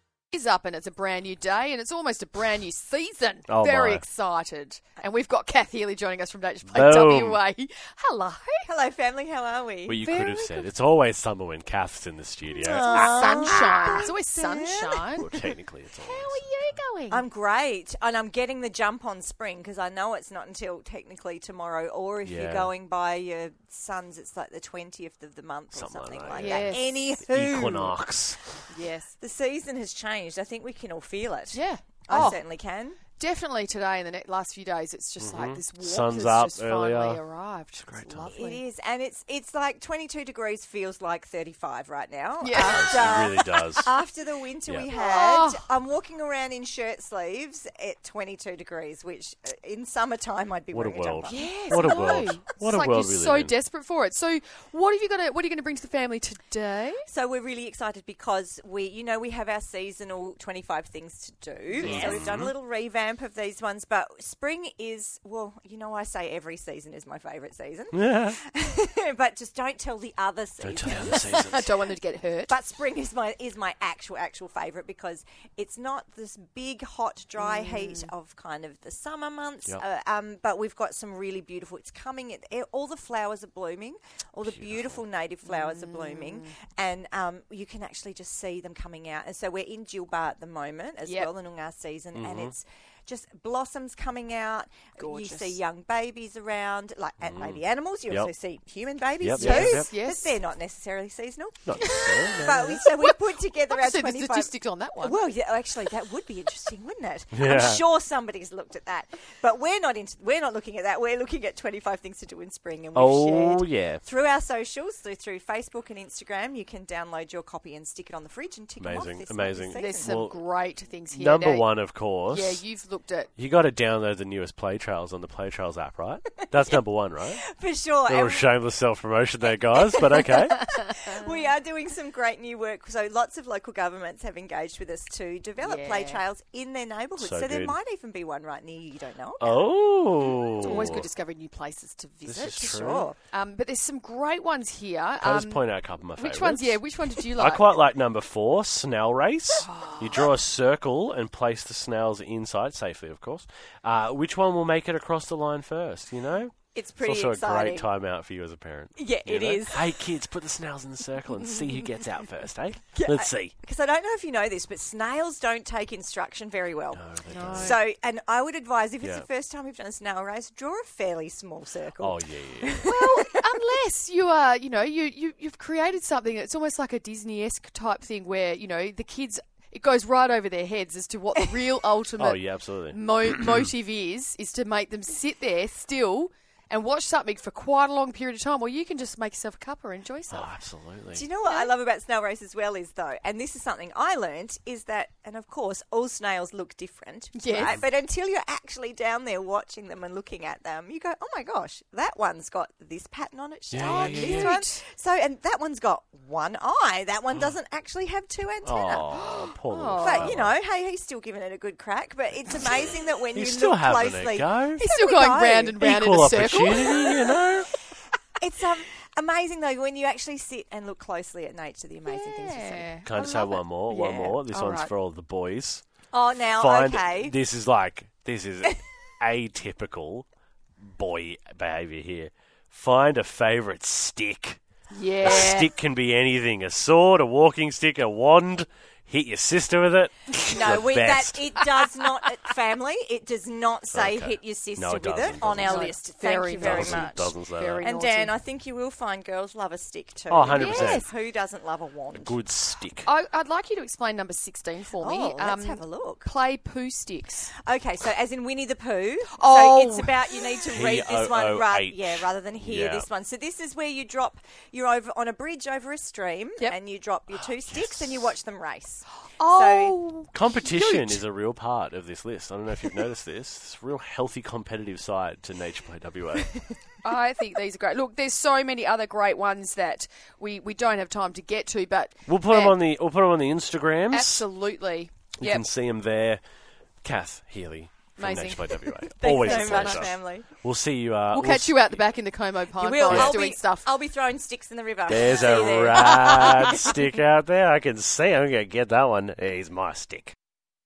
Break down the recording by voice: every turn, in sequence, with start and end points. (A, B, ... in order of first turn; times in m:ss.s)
0:00.3-0:08.7 A
0:03.5-0:04.0 B
0:06.6-0:07.4 B
0:08.7-0:10.2 C
0:09.8-0:14.0 B
0:10.1-0:10.6 A
0:12.6-0:15.3 A
0:12.6-0:15.4 C
0:15.2-0:16.4 B
0:16.0-0:17.2 A
0:17.1-0:28.0 C
0:22.2-0:22.7 B
0:25.7-0:28.6 B
0:26.4-0:26.9 A
0:28.7-0:29.1 A
0:29.2-0:33.0 C
0:31.5-0:32.4 A
0:33.2-0:38.6 A
0:35.2-0:37.2 B
0:37.8-0:38.3 B
0:38.3-0:52.4 C
0:42.4-0:43.2 A
0:42.5-0:43.9 B
0:44.9-0:45.6 A
0:50.7-0:53.5 B
0:51.3-0:57.0 A
0:57.1-1:11.6 C
1:01.7-1:02.2 A
1:01.8-1:02.5 B
1:07.9-1:08.4 B
1:10.6-1:11.6 B
1:10.9-1:12.5 A
1:12.5-2:00.2 C
1:17.4-1:18.1 A
1:24.5-1:25.0 B
1:25.4-1:26.5 A
1:32.1-1:32.5 B
1:35.0-1:35.6 A
1:37.2-1:38.3 B
1:39.2-1:39.9 B
1:39.4-1:40.3 A
1:41.6-1:42.8 B
1:41.8-1:42.3 A
1:43.7-1:45.2 A
1:47.3-1:47.8 B
1:52.9-1:54.0 B
1:58.8-2:00.4 B
1:59.7-2:01.7 A
2:01.1-2:02.6 B
2:02.3-2:03.3 A
2:03.4-2:07.4 B
2:07.5-2:08.5 C
2:08.1-2:10.6 B
2:09.9-2:19.6 C
2:10.6-2:11.4 A
2:15.6-2:16.2 A
2:17.2-2:17.8 B
2:19.4-2:21.1 B
2:20.6-2:25.6 A
2:22.2-2:23.1 B
2:22.4-2:23.2 C
2:25.2-2:26.8 B
2:26.2-2:27.6 A
2:27.3-2:43.5 B
2:29.6-2:30.3 A
2:36.7-2:37.9 C
2:39.0-2:40.0 C
2:42.9-2:53.4 C
2:46.9-2:47.8 B
2:47.3-2:47.8 A
2:49.0-2:49.2 B
2:52.0-2:52.8 B
2:52.8-3:10.5 A
3:02.2-3:03.6 B
3:10.3-3:11.2 B
3:11.1-3:29.1 C
3:11.4-3:11.7 A
3:17.3-3:17.8 A
3:23.7-3:24.5 B
3:23.8-3:24.8 A
3:28.6-3:30.5 B
3:29.1-3:30.3 A
3:30.0-3:35.9 C
3:33.3-3:34.8 B
3:34.8-3:37.2 A
3:35.8-3:37.7 B
3:36.8-3:37.2 C
3:38.4-3:43.4 C
3:42.1-3:44.9 A
3:43.0-3:45.8 B
3:43.9-3:44.3 C
3:46.1-3:47.4 C
3:46.6-3:50.3 B
3:50.8-3:54.6 B
3:54.9-3:55.7 A
3:55.2-4:01.5 B
4:00.5-4:07.3 C
4:03.9-4:05.9 B
4:05.6-4:08.3 A
4:06.6-4:07.8 B
4:07.8-4:12.4 C
4:10.3-4:11.1 B
4:10.5-4:11.0 A
4:12.1-4:13.1 B
4:13.0-4:17.5 A
4:15.0-4:16.3 C
4:17.6-4:30.0 C
4:19.3-4:20.5 A
4:20.7-4:23.1 B
4:27.6-4:28.2 B
4:29.2-4:31.2 A
4:30.3-4:36.5 B
4:37.0-4:42.8 A
4:42.3-4:44.5 B
4:44.1-4:45.6 A
4:45.4-4:46.4 B
4:47.0-4:52.0 B
4:48.2-4:50.1 A
4:49.2-4:50.5 C
4:51.3-4:53.9 A
4:52.8-4:57.0 C
4:53.1-4:53.4 B
4:55.1-5:00.3 B